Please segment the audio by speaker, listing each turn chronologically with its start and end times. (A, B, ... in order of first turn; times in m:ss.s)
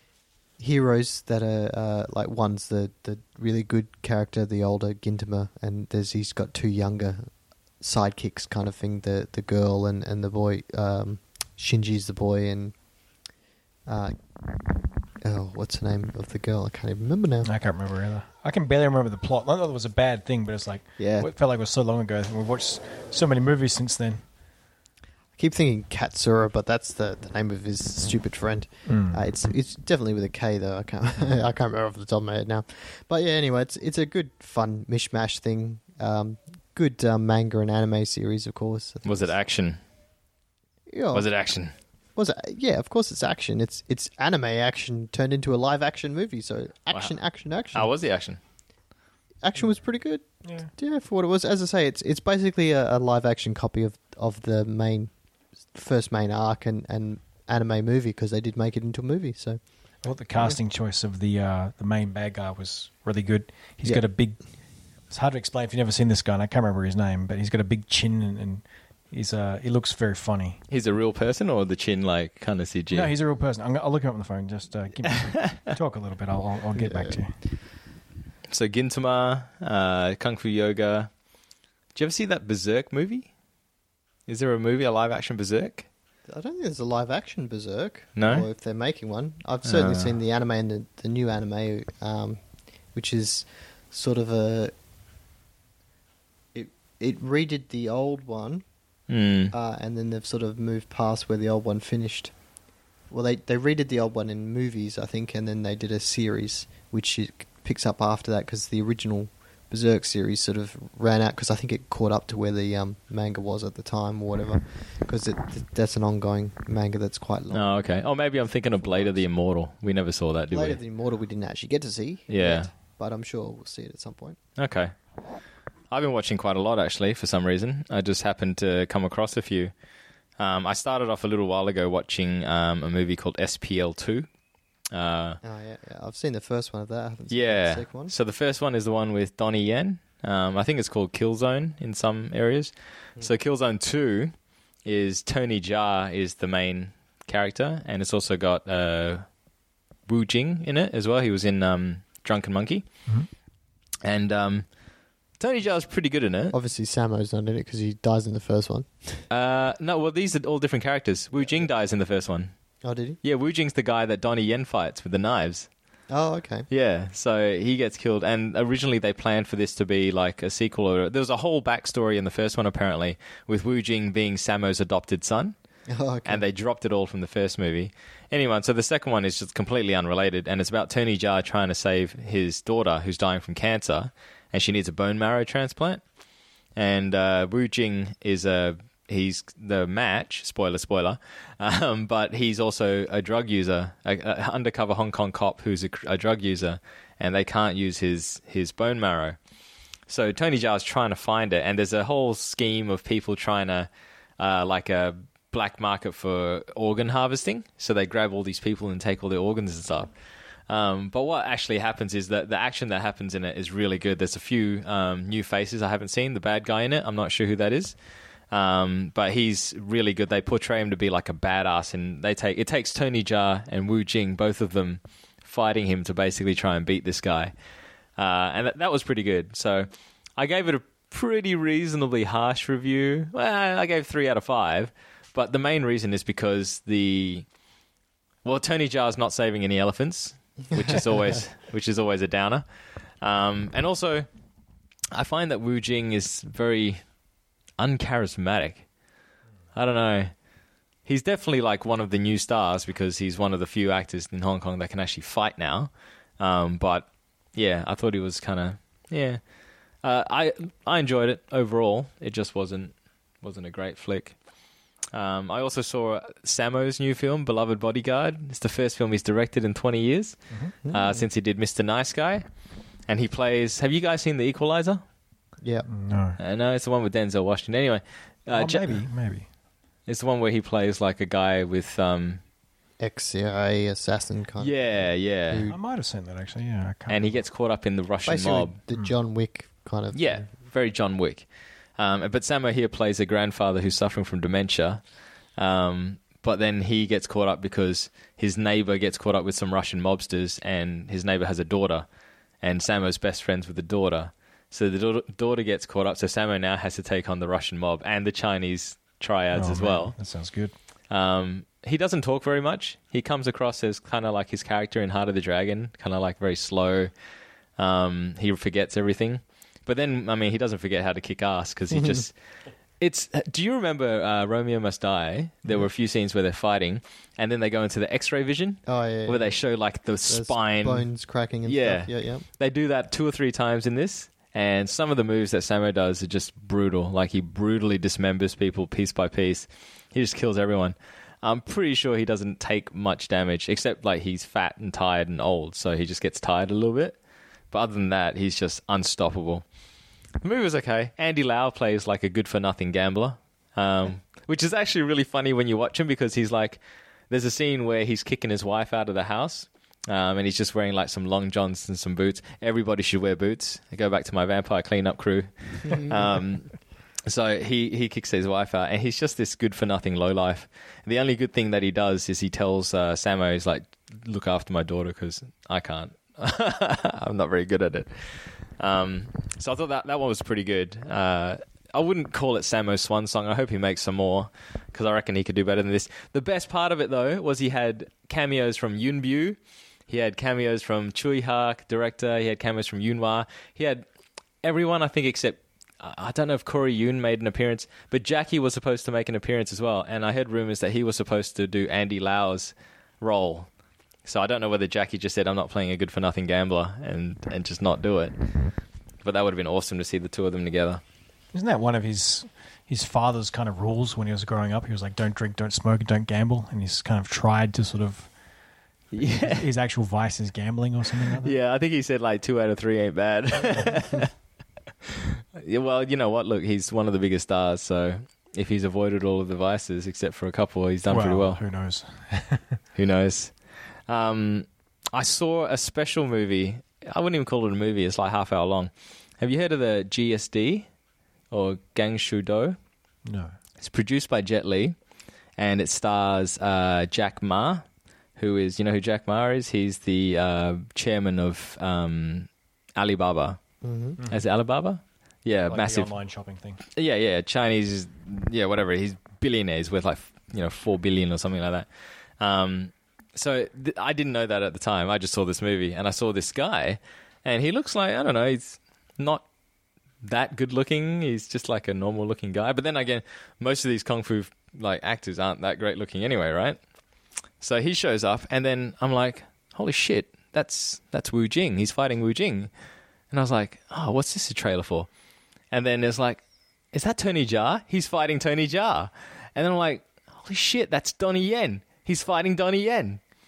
0:00.6-0:07.3 A
0:07.8-0:12.7 A
0:13.9-0:14.2 A
0:15.2-0:17.5 A
0:17.4-0:24.2 B
0:21.0-0:21.3 A
0:25.4-0:39.3 A
0:28.9-0:29.2 B
0:39.0-0:39.8 C
0:40.9-0:41.2 A
0:41.1-0:41.7 C
0:42.2-0:47.9 A
0:47.7-0:48.4 C
0:49.4-0:55.1 A
0:50.4-0:50.7 B
0:55.7-0:59.6 A
1:00.0-1:04.4 B
1:05.1-1:10.6 B
1:10.7-1:13.1 C
1:12.9-1:17.3 B
1:15.2-1:15.6 C
1:16.8-1:17.2 A
1:18.5-1:21.1 C
1:21.9-1:23.3 C
1:24.3-1:25.8 C
1:26.3-1:32.4 A
1:28.2-1:28.5 C
1:29.6-1:30.1 C
1:32.9-1:34.7 A
1:36.5-1:38.6 A
1:39.1-1:39.5 C
1:39.5-1:42.3 A
1:43.1-1:57.7 A
1:57.5-2:00.8 C
1:58.8-1:59.2 A
2:00.5-2:04.4 A
2:02.3-2:02.7 C
2:04.6-2:04.9 C
2:05.9-2:09.7 C
2:10.4-2:14.3 C
2:14.9-2:15.4 C
2:15.4-2:18.1 A
2:17.3-2:24.3 C
2:24.8-2:29.2 C
2:30.1-2:32.9 C
2:34.0-2:34.6 C
2:35.4-2:36.5 C
2:36.5-2:39.2 A
2:39.3-2:42.5 C
2:41.4-2:41.6 A
2:42.8-2:43.2 A
2:43.2-2:45.7 C
2:46.1-2:46.7 A
2:46.7-2:55.5 C
2:55.9-2:56.4 A
2:56.2-3:06.0 C
3:06.8-3:19.4 C
3:20.1-3:30.1 C
3:30.7-3:37.9 C
3:38.5-3:47.5 C
3:48.2-3:57.4 C
3:58.4-4:02.6 C
4:03.2-4:04.3 C
4:05.1-4:07.0 C
4:07.8-4:08.8 C
4:09.7-4:10.3 C
4:11.0-4:19.4 C
4:20.0-4:24.3 C
4:25.1-4:30.4 C
4:30.8-4:31.2 A
4:30.9-4:32.4 C
4:33.1-4:35.0 C
4:35.6-4:35.9 A
4:35.9-4:36.4 B
4:36.4-4:39.0 C
4:38.5-4:39.5 B
4:40.1-4:42.4 C
4:43.0-4:45.8 A
4:44.6-4:45.6 C
4:45.7-4:47.4 B
4:47.1-4:48.7 C
4:48.2-4:50.4 A
4:50.1-4:51.4 C
4:52.0-4:55.0 C
4:55.6-5:02.1 C
5:02.6-5:10.1 C
5:09.5-5:10.7 B
5:11.1-5:17.1 C
5:17.8-5:22.3 C
5:21.9-5:22.2 A
5:23.0-5:31.1 C
5:28.8-5:29.5 A
5:30.3-5:32.4 A
5:31.6-5:47.2 C
5:47.7-5:49.6 C
5:50.4-6:06.7 C
6:07.2-6:18.1 C
6:18.8-6:34.0 C
6:34.6-6:43.7 C
6:44.2-6:48.4 C
6:49.2-6:51.0 C
6:51.5-6:58.3 B
6:59.1-6:59.7 C
6:59.4-7:01.5 B
7:01.4-7:04.3 C
7:05.1-7:11.6 C
7:11.0-7:12.8 B
7:13.0-7:13.5 C
7:14.1-7:20.9 C
7:21.5-7:22.8 C
7:23.2-7:23.5 B
7:23.8-7:25.0 C
7:25.6-7:27.8 C
7:28.4-7:33.6 C
7:33.8-7:34.2 A
7:34.2-7:34.4 B
7:34.3-7:36.1 C
7:35.7-7:36.8 B
7:36.9-7:41.9 C
7:42.4-7:49.4 C
7:50.2-7:56.8 C
7:57.6-8:02.7 C
8:03.3-8:05.1 C
8:05.7-8:06.4 C
8:06.9-8:13.2 C